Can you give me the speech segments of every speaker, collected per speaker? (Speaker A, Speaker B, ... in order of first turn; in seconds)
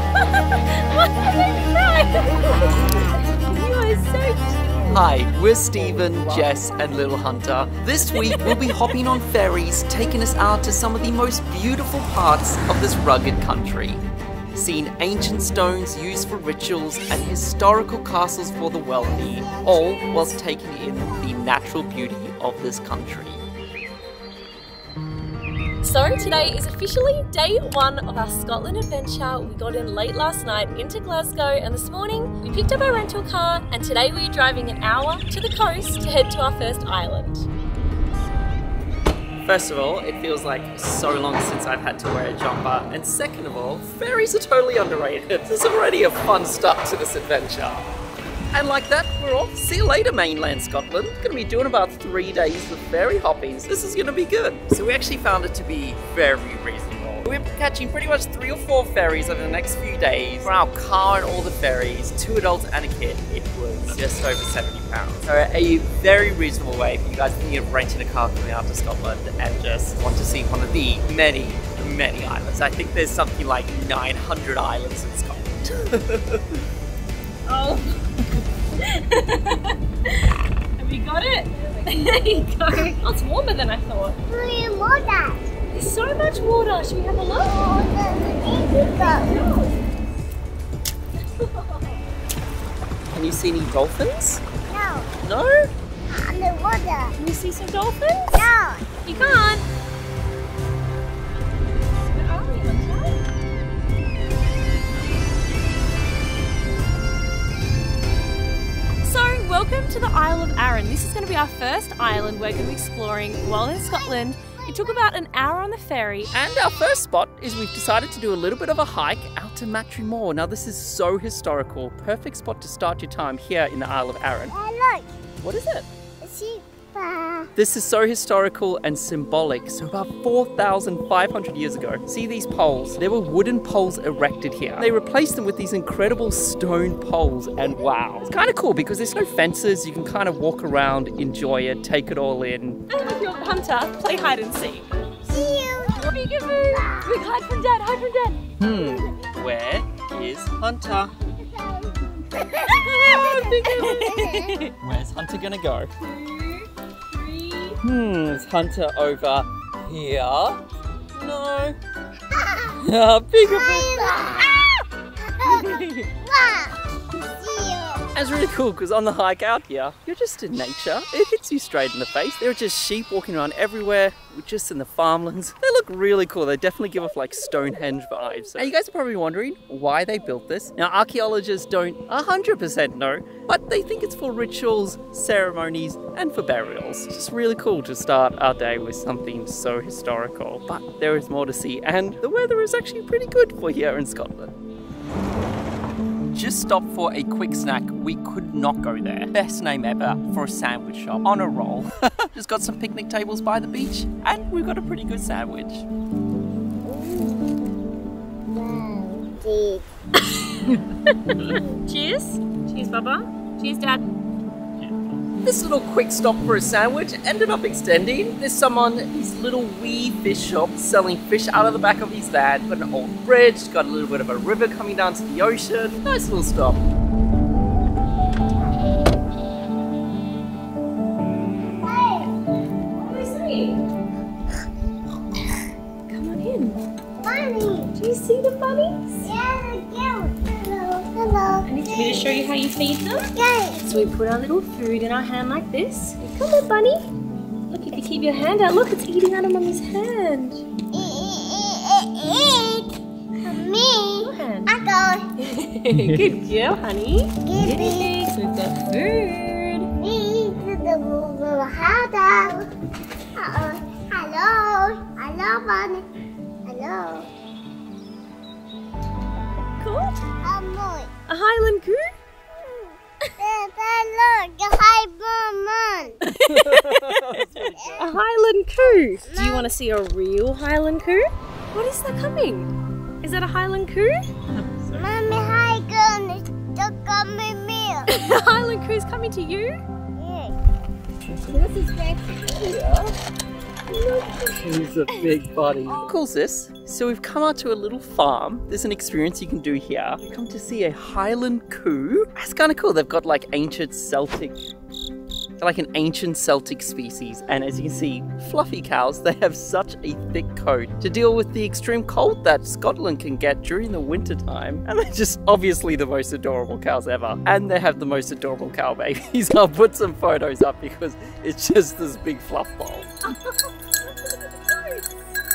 Speaker A: 0.1-5.0, 8.1-8.8, 25.8-37.5, 77.5-84.2, 85.7-87.5, 88.7-89.8, 91.4-92.0, 97.2-98.5, 99.0-99.7, 102.1-103.2, 109.0-116.3, 142.9-144.9, 145.9-148.4, 152.5-154.7, 156.0-157.8, 165.7-165.9, 210.2-214.1, 232.9-233.8, 236.1-236.8, 237.9-239.3, 241.7-243.3, 243.8-247.1, 247.7-250.7, 254.2-254.8, 255.4-259.9, 269.8-270.2, 271.3-272.1, 276.2-277.4, 278.0-284.3, 288.1-289.8, 291.8-292.2, 293.9-295.3, 323.2-325.2
Speaker B: 4.9-14.0, 14.5-23.4, 39.4-47.8, 48.5-76.4, 93.1-94.4, 95.2-95.5, 116.3-124.5, 125.4-125.9, 127.6-142.8, 148.6-151.1, 153.0-154.0, 154.8-155.9, 157.8-160.6, 161.1-161.8, 162.8-164.7, 168.2-194.5, 196.3-205.9, 215.4-226.8, 255.9-256.3, 276.7-278.2, 291.3-293.1, 294.6-304.6, 305.6-323.1
Speaker C: 19.0-20.4, 84.3-85.5, 87.3-89.4, 94.7-95.1, 96.1-97.2, 98.3-98.9, 124.5-125.1, 126.2-127.5, 145.3-146.1, 146.7-147.3, 148.7-149.2, 151.4-154.6, 162.3-162.8, 163.4-164.7, 165.2-168.1, 206.9-207.6, 208.5-209.8, 211.5-211.7, 231.7-232.3, 237.2-237.9, 239.2-242.4, 243.3-243.8, 250.9-252.9, 253.4-255.3, 257.4-258.2, 260.0-262.7, 263.4-266.1, 266.6-267.3, 270.4-271.1, 272.6-276.2, 277.7-278.1, 279.2-279.6, 284.9-288.2, 290.2-290.6, 295.9-296.1